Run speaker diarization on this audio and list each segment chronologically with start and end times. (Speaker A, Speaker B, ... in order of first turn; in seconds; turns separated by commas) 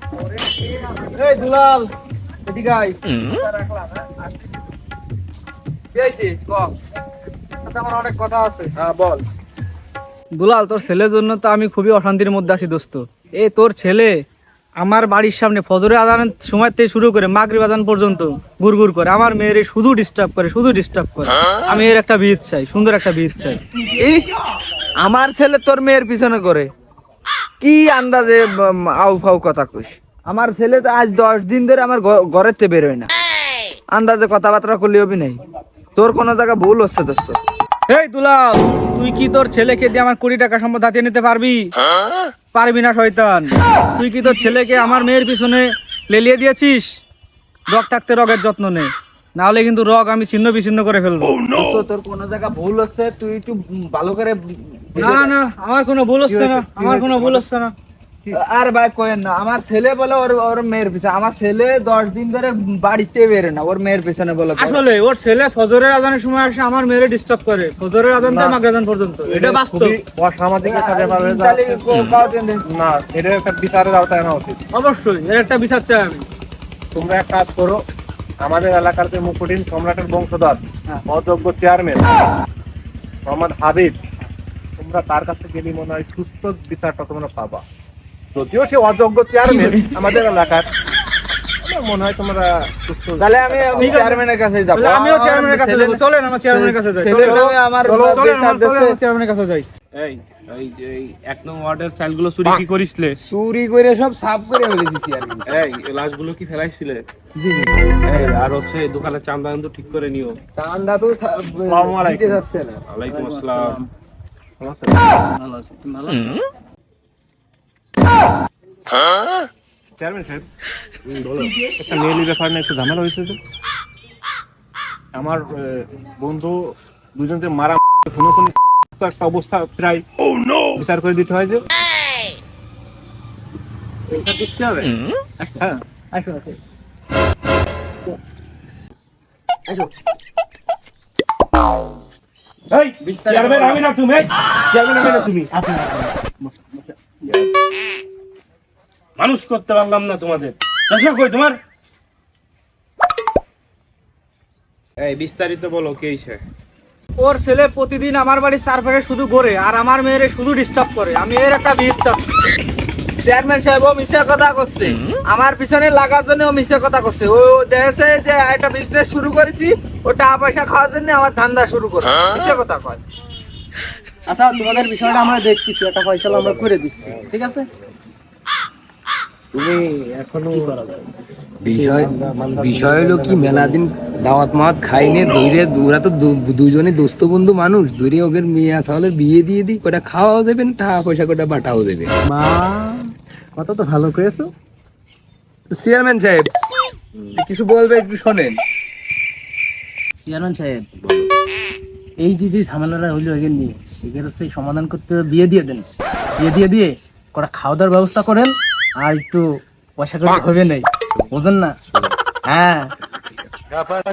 Speaker A: 0.4-1.5, Speaker B: 1.1-1.9, Speaker A: 2.5-4.6, Speaker A: 5.9-6.7, Speaker B: 7.6-8.7, Speaker A: 8.8-9.2, Speaker B: 10.4-14.2, Speaker B: 14.8-23.6, Speaker A: 23.8-24.3, Speaker A: 25.0-26.7, Speaker A: 27.6-33.1, Speaker A: 33.9-35.4, Speaker A: 36.0-37.4, Speaker B: 37.9-41.7, Speaker B: 42.5-47.0, Speaker B: 47.7-51.4, Speaker A: 51.5-55.3, Speaker C: 55.0-55.2, Speaker B: 55.0-57.7, Speaker C: 56.3-57.4, Speaker A: 58.4-64.8, Speaker B: 64.6-70.0, Speaker C: 68.2-68.6, Speaker C: 69.3-71.8, Speaker A: 70.6-72.6, Speaker C: 72.6-74.6, Speaker B: 74.7-76.2, Speaker C: 76.9-77.8, Speaker C: 78.4-82.2, Speaker C: 83.2-84.0, Speaker C: 84.8-87.6, Speaker C: 88.3-90.7, Speaker A: 89.5-89.9, Speaker C: 91.6-94.1, Speaker A: 93.2-99.0, Speaker B: 93.8-94.2, Speaker B: 94.7-97.5, Speaker C: 97.1-98.2, Speaker B: 98.1-99.7, Speaker D: 99.9-103.2, Speaker A: 103.3-105.4, Speaker E: 103.7-105.4, Speaker D: 105.5-107.0, Speaker F: 107.4-108.4, Speaker D: 108.0-110.4, Speaker A: 110.5-112.7, Speaker C: 111.6-112.4, Speaker D: 112.9-113.8, Speaker F: 113.1-113.9, Speaker C: 114.6-115.0, Speaker F: 115.3-116.4, Speaker C: 120.0-120.5, Speaker C: 121.6-123.4, Speaker C: 125.1-130.0, Speaker C: 130.7-131.6, Speaker F: 134.1-134.9, Speaker F: 135.4-136.5, Speaker D: 142.7-145.5, Speaker F: 143.3-143.7, Speaker F: 145.6-146.9, Speaker D: 149.2-151.6, Speaker D: 155.0-156.4, Speaker B: 157.2-162.3, Speaker A: 163.2-173.0, Speaker F: 174.3-177.6, Speaker E: 179.5-180.7, Speaker E: 181.6-192.1, Speaker C: 181.8-183.8, Speaker F: 192.3-194.5, Speaker E: 195.7-196.5, Speaker D: 197.2-197.4, Speaker E: 197.3-198.6, Speaker F: 200.2-200.8, Speaker F: 202.2-205.8, Speaker F: 206.4-209.4, Speaker F: 210.0-211.7, Speaker F: 212.4-212.9